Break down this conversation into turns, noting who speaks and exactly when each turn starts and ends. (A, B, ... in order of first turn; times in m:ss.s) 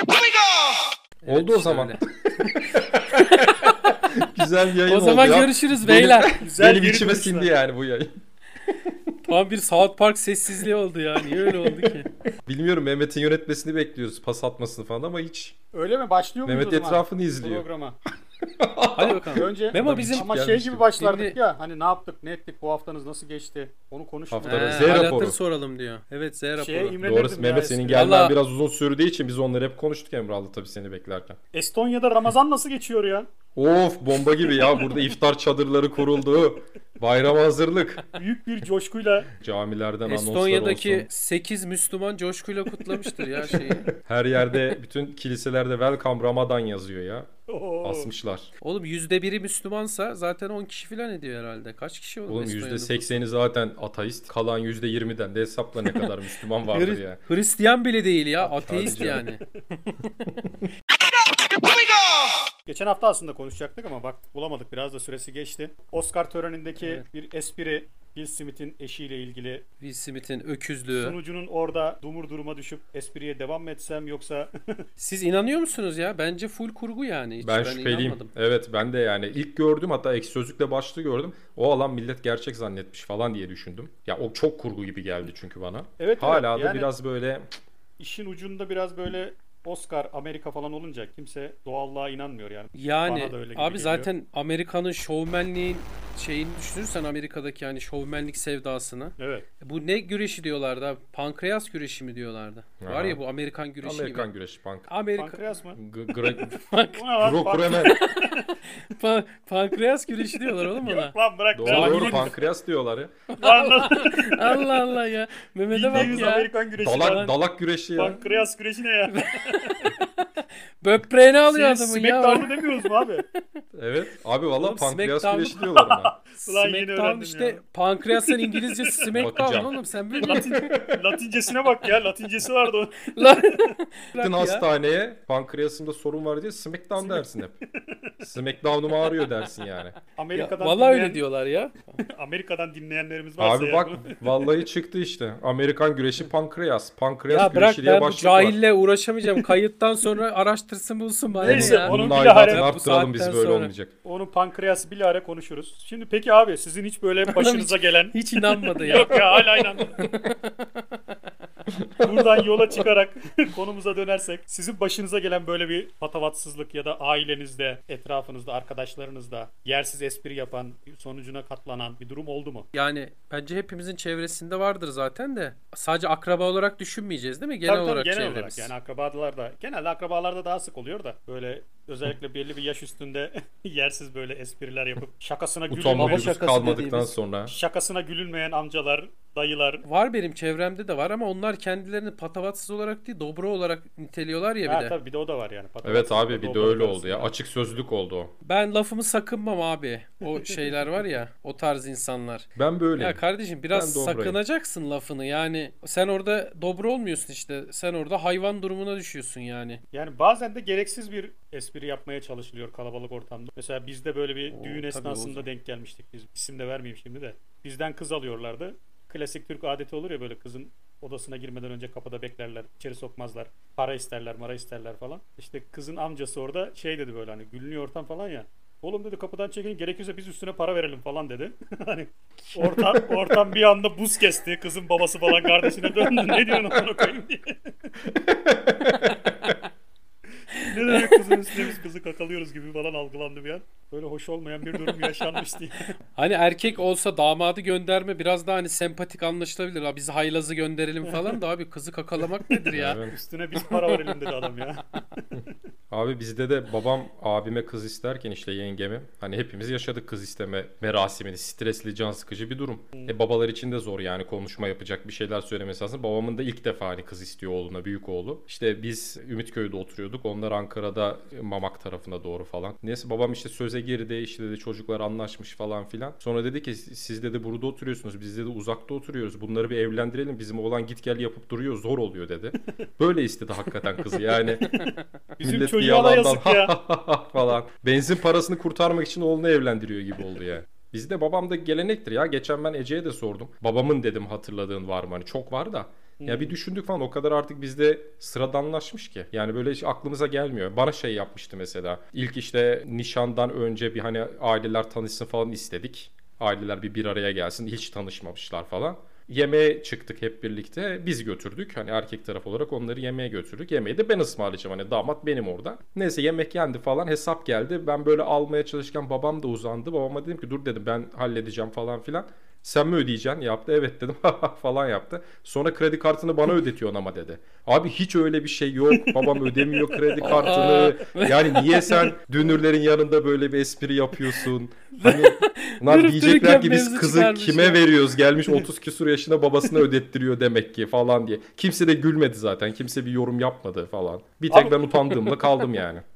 0:01.2-0:02.0 A
0:01.3-0:08.1 B
0:02.8-0:04.0 A
0:04.8-0:06.4 A
0:06.4-0:07.5 C
0:09.2-0:12.1 A
0:11.2-0:15.5 B
0:15.7-0:18.0 C
0:16.4-0:17.6 B
0:18.5-0:20.8 B
0:19.0-0:20.3 A
0:19.4-0:24.9 C
0:21.0-0:21.3 A
0:24.3-0:25.4 B
0:24.4-0:27.0 A
0:26.6-0:28.1 C
0:27.0-0:31.4 B
0:27.9-0:28.4 A
0:31.5-0:33.3 C
0:33.5-0:38.0 B
0:34.4-0:35.0 C
0:38.1-0:39.3 C
0:39.3-0:41.1 B
0:40.0-0:43.9 A
0:42.8-0:47.3 B
0:47.5-0:48.1 C
0:47.8-0:48.5 B
0:48.6-0:53.2 A
0:52.3-0:57.2 B
0:56.7-0:59.4 A
0:58.4-0:59.2 B
0:58.7-0:59.3 C
1:02.7-1:09.6 C
1:09.8-1:11.2 A
1:10.9-1:14.5 C
1:15.0-1:18.3 A
1:17.4-1:27.5 B
1:26.0-1:26.9 C
1:28.0-1:34.1 C
1:32.7-1:44.3 A
1:39.2-1:39.4 C
1:42.8-1:43.2 B
1:43.8-1:44.9 B
1:44.9-1:45.4 A
1:45.2-1:45.8 C
1:45.8-1:46.6 B
1:46.2-1:47.0 A
1:46.9-1:48.5 C
1:47.2-1:47.9 B
1:47.8-1:51.1 A
1:50.4-1:52.3 C
1:51.5-1:53.1 B
1:51.6-1:52.3 A
1:53.3-1:57.2 A
1:53.4-1:54.7 C
1:55.7-1:57.4 C
1:55.9-1:56.3 B
1:56.8-1:58.2 B
1:58.0-1:59.9 C
1:59.1-2:00.2 A
2:00.8-2:02.8 A
2:01.5-2:03.2 C
2:03.7-2:06.1 B
2:04.6-2:05.6 A
2:05.6-2:07.6 C
2:06.4-2:10.6 A
2:08.3-2:08.8 C
2:09.1-2:11.0 B
2:10.2-2:13.7 C
2:13.1-2:14.7 A
2:14.2-2:17.5 B
2:17.0-2:18.3 C
2:18.2-2:19.9 B
2:20.2-2:21.2 C
2:20.3-2:22.0 A
2:22.0-2:24.2 C
2:23.4-2:28.6 B
2:27.3-2:33.7 A
2:31.4-2:32.7 C
2:31.4-2:33.9 B
2:34.0-2:40.0 C
2:37.3-2:40.8 A
2:41.7-2:42.5 B
2:42.0-2:52.7 C
2:52.7-2:58.7 A
2:57.6-3:06.4 C
3:05.7-3:07.5 B
3:06.0-3:07.1 A
3:07.5-3:09.8 C
3:09.8-3:14.9 A
3:14.6-3:17.3 C
3:15.8-3:18.3 B
3:18.4-3:29.8 A
3:22.6-3:24.4 B
3:29.9-3:57.9 C
3:34.5-3:35.5 A
3:52.6-3:53.0 B
3:58.1-3:59.2 B
4:00.6-4:05.9 C
4:00.9-4:01.5 A
4:06.2-4:13.0 A
4:11.1-4:11.3 C
4:12.7-4:13.1 B
4:13.1-4:15.2 C
4:13.6-4:14.0 A
4:15.9-4:44.7 B
4:44.7-4:46.7 C
4:45.4-5:46.0 B
4:56.2-4:56.5 C
5:30.2-5:32.1 A
5:35.0-5:37.8 A
5:44.5-5:44.9 C